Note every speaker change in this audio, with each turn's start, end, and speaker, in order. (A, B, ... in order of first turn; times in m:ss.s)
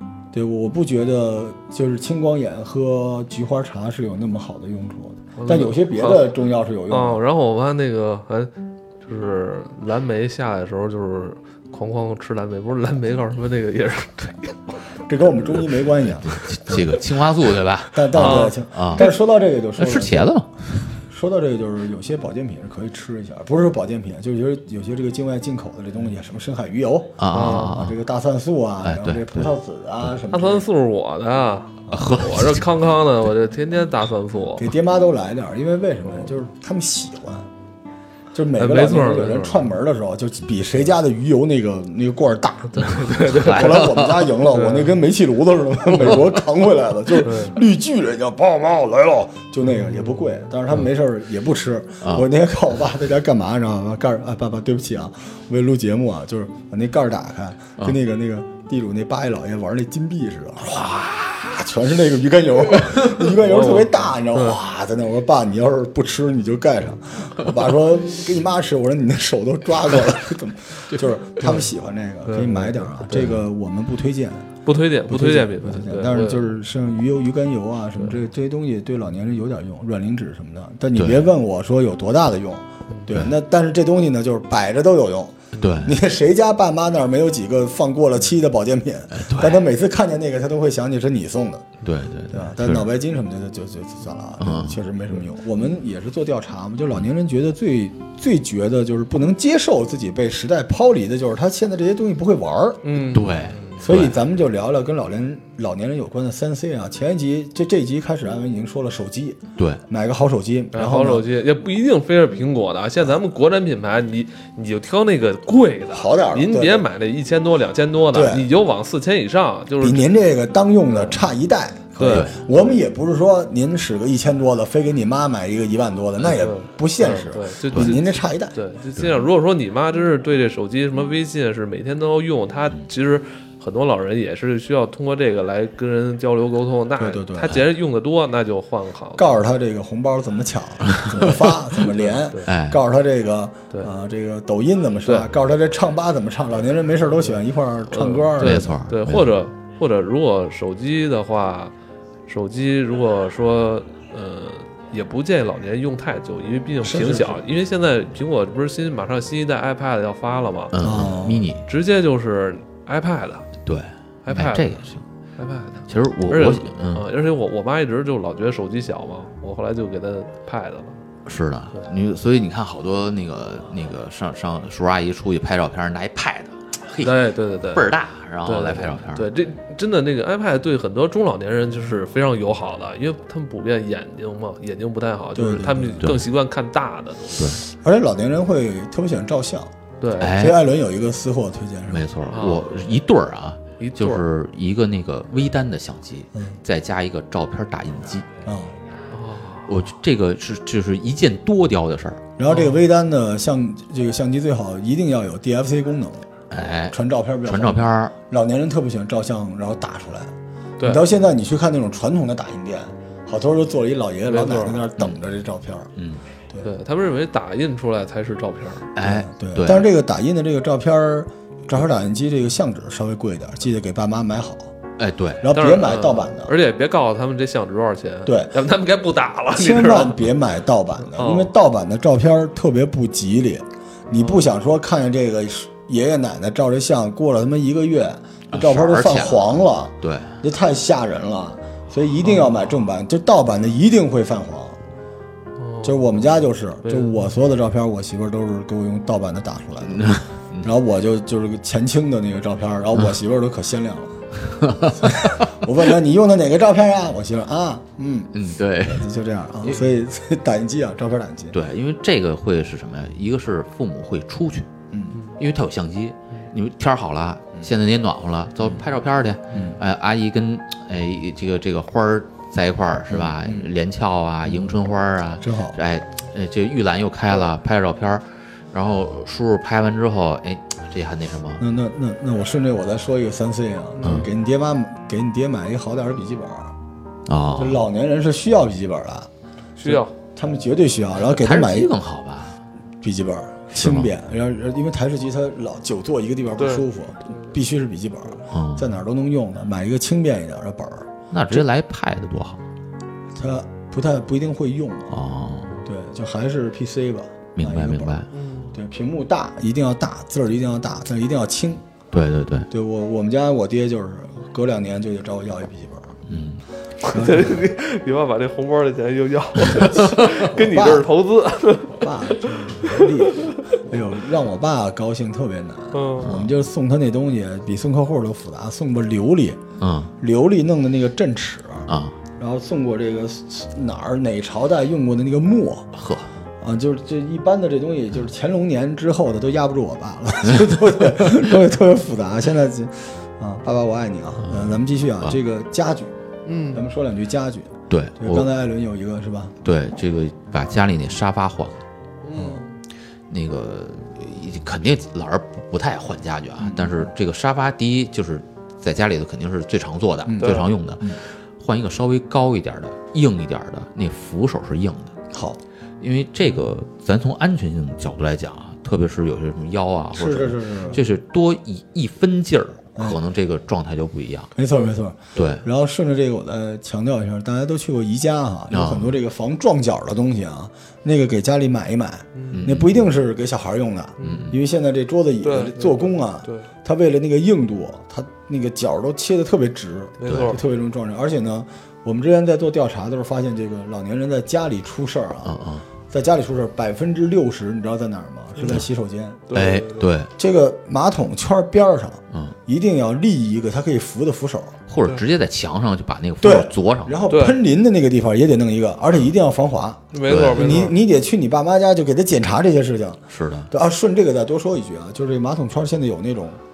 0:00.3-0:07.2 A
0:05.4-0:06.4 B
0:06.9-0:14.8 B
0:15.1-0:17.0 A
0:16.2-0:19.1 C
0:17.9-0:20.3 A
0:18.1-0:19.1 B
0:19.8-0:20.5 C
0:21.1-0:30.7 A
0:27.2-0:28.0 C
0:27.3-0:27.8 B
0:28.8-0:29.5 C
0:30.3-0:34.7 B
0:31.9-0:32.7 C
0:34.6-0:37.5 A
0:38.3-1:14.5 A
0:38.6-0:39.7 B
0:42.7-0:45.0 B
0:43.3-0:44.3 C
0:46.0-0:46.3 C
0:47.2-0:47.6 B
0:49.8-0:50.2 B
0:52.0-0:52.3 C
1:00.7-1:01.5 C
1:03.4-1:04.6 B
1:11.4-1:11.7 B
1:12.3-1:13.4 B
1:14.6-1:16.5 B
1:15.1-1:31.7 A
1:21.0-1:21.3 C
1:23.1-1:23.4 C
1:25.6-1:26.0 C
1:29.1-1:29.6 C
1:31.8-1:32.9 C
1:32.3-1:43.1 A
1:34.4-1:34.8 C
1:42.8-1:43.9 B
1:43.1-1:44.2 C
1:43.8-1:51.3 A
1:49.6-1:49.8 C
1:50.7-2:00.1 B
1:55.9-1:56.9 A
1:58.1-1:58.5 A
1:59.8-2:08.6 A
2:00.9-2:01.2 B
2:02.0-2:02.7 B
2:02.0-2:02.4 C
2:06.3-2:19.4 B
2:17.0-2:17.6 A
2:19.2-2:28.8 A
2:20.9-2:21.6 C
2:21.8-2:22.5 B
2:22.4-2:22.8 C
2:27.2-2:31.7 B
2:28.4-2:29.3 C
2:32.3-2:40.8 B
2:36.8-2:37.4 A
2:40.7-2:41.6 C
2:40.8-2:41.5 A
2:41.6-2:43.5 B
2:43.6-2:45.0 C
2:44.2-2:44.8 B
2:45.4-2:51.0 B
2:45.9-2:47.1 C
2:51.3-2:59.3 C
2:57.0-2:57.9 B
2:58.4-3:07.6 B
3:05.4-3:06.1 A
3:07.7-3:12.1 A
3:10.0-3:10.4 B
3:10.2-3:10.6 C
3:11.9-3:18.3 C
3:12.3-3:12.7 B
3:13.8-3:14.2 B
3:16.4-3:16.6 A
3:18.4-3:18.8 A
3:19.1-3:19.7 B
3:19.7-3:22.3 C
3:22.4-3:26.3 A
3:22.5-3:22.9 B
3:26.5-3:28.2 C
3:26.9-3:35.9 A
3:30.8-3:31.0 B
3:34.3-3:34.9 B
3:36.0-3:36.2 C
3:36.6-3:39.0 B
3:39.0-3:39.9 C
3:39.0-3:44.7 A
3:45.0-3:45.5 C
3:45.4-3:46.5 A
3:45.5-3:50.2 B
3:48.3-3:48.5 A
3:49.5-4:04.8 A
3:51.1-3:51.5 B
3:54.2-3:54.5 B
3:58.5-4:00.4 C
4:05.6-4:07.3 B
4:05.8-4:14.2 A
4:09.8-4:10.7 C
4:14.5-4:15.5 C
4:14.9-4:21.6 A
4:18.3-4:19.1 C
4:21.5-4:24.7 C
4:24.9-4:25.2 A
4:25.4-4:41.6 C
4:29.5-4:29.8 A
4:33.1-4:33.7 A
4:34.4-4:34.8 A
4:35.4-4:35.8 A
4:41.6-4:46.7 A
4:44.0-4:44.3 B
4:44.0-4:44.3 C
4:47.3-4:47.8 C
4:47.6-4:51.9 A
4:49.8-4:50.1 B
4:51.2-4:52.6 C
4:53.0-5:01.7 A
4:53.7-4:54.1 C
4:56.6-4:57.6 B
4:58.5-4:58.9 C
5:01.3-5:02.6 C
5:03.4-5:05.2 A
5:05.1-5:05.8 C
5:05.8-5:11.8 A
5:07.6-5:08.3 C
5:08.3-5:08.8 B
5:12.1-5:12.7 C
5:12.7-5:16.2 A
5:16.3-5:16.6 C
5:17.0-5:23.8 B
5:17.1-5:17.6 A
5:19.8-5:21.1 A
5:22.0-5:29.6 A
5:25.9-5:26.3 B
5:26.2-5:26.5 C
5:29.8-5:30.1 C
5:30.2-5:35.9 A
5:31.9-5:32.2 C
5:36.0-5:36.3 C
5:36.6-5:46.1 A
5:44.4-5:45.4 C
5:46.5-5:46.9 B
5:46.7-5:49.6 A
5:47.9-5:48.5 C
5:49.6-5:51.8 C
5:52.2-5:52.8 B
5:52.3-5:52.6 A
5:53.3-6:05.2 C
5:56.6-5:57.1 A
6:00.3-6:01.2 A
6:00.4-6:00.7 B
6:05.3-6:05.6 A
6:06.0-6:14.5 C
6:10.1-6:11.0 A
6:13.0-6:13.2 A
6:14.6-6:35.6 A
6:15.4-6:15.7 C
6:18.7-6:19.1 C
6:22.4-6:22.7 B
6:22.5-6:23.0 C
6:24.2-6:24.5 B
6:24.2-6:24.6 C
6:25.4-6:26.7 B
6:30.2-6:30.6 B
6:30.3-6:30.6 C
6:35.4-6:35.8 C
6:36.1-6:39.6 A
6:38.6-6:38.8 B
6:38.6-6:38.9 C
6:39.5-6:40.1 B
6:39.5-6:40.3 C
6:40.4-6:44.8 A
6:42.3-6:42.6 C
6:44.9-6:47.2 C
6:45.0-6:45.2 B
6:46.4-6:56.6 A
6:47.3-6:47.6 B
6:50.1-6:51.0 B
6:50.3-6:50.8 C
6:53.3-6:53.7 C